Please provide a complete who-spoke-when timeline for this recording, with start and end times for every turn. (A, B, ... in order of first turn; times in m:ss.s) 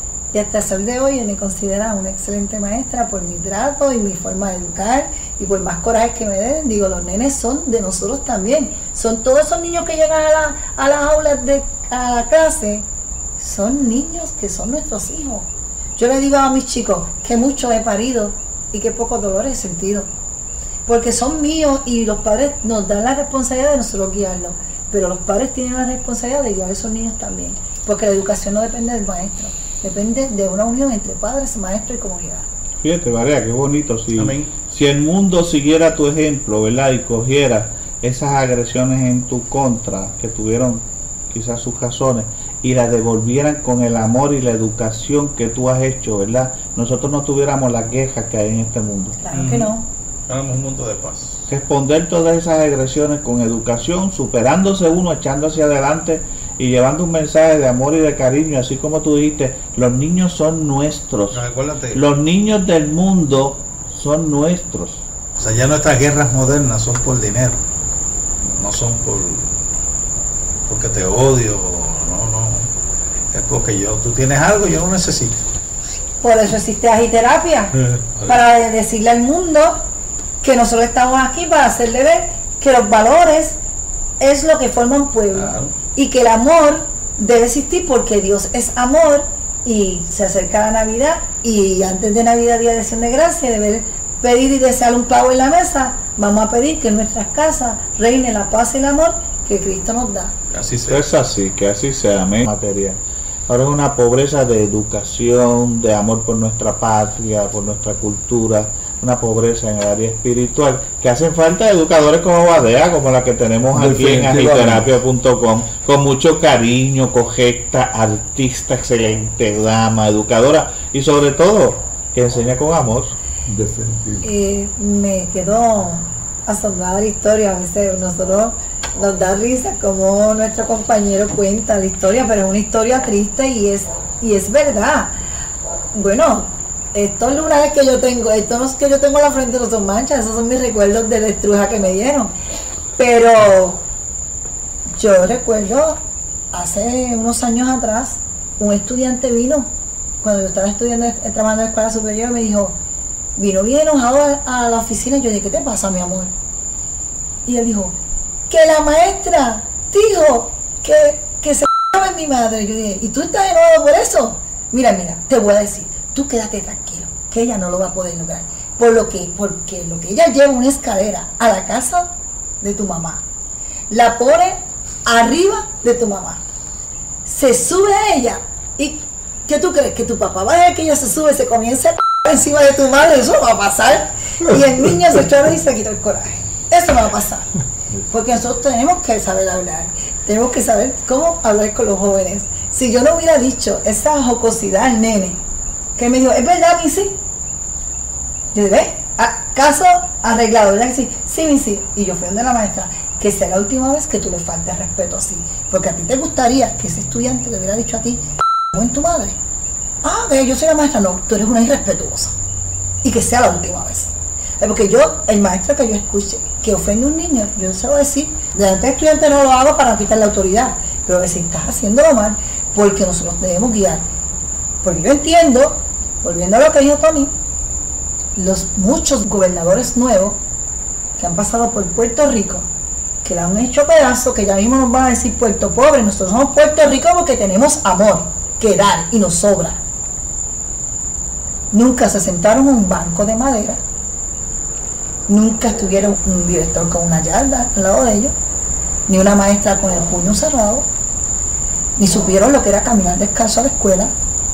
0:00.3-0:12.8 A
0:13.4-0:20.1 A
0:20.9-0:32.5 A
0:32.8-0:49.2 B
0:34.2-0:34.5 C
0:49.2-0:49.9 A
0:49.3-0:49.7 C
0:50.3-0:51.4 C
0:51.5-1:01.4 B
1:01.3-1:02.0 C
1:01.9-1:05.1 B
1:05.4-1:07.6 C
1:08.4-1:09.6 C
1:10.7-1:12.7 C
1:13.3-1:15.4 C
1:16.2-1:17.8 A
1:18.0-1:18.4 C
1:18.3-1:19.8 A
1:20.4-1:23.6 A
1:24.2-1:40.4 A
1:25.3-1:25.7 C
1:40.5-1:41.0 C
1:40.9-2:03.2 B
1:53.8-1:54.9 D
2:03.5-2:04.2 D
2:04.2-2:15.2 A
2:15.9-2:22.3 A
2:23.0-2:23.8 A
2:25.0-2:26.0 A
2:26.5-2:29.7 A
2:30.2-2:32.8 A
2:33.4-2:36.3 A
2:37.5-2:38.0 A
2:38.5-2:52.1 A
2:52.6-2:53.2 A
2:53.9-2:56.4 A
2:57.3-3:07.5 A
3:08.1-3:15.4 A
3:16.0-3:17.2 A
3:18.5-3:29.4 A
3:30.0-3:32.3 A
3:33.0-3:44.0 A
3:44.8-3:47.3 A
3:48.4-3:50.4 A
3:51.2-3:52.7 A
3:53.2-3:59.8 A
4:01.7-4:03.8 A
4:05.3-4:08.3 A
4:09.1-4:10.9 A
4:12.0-4:14.1 A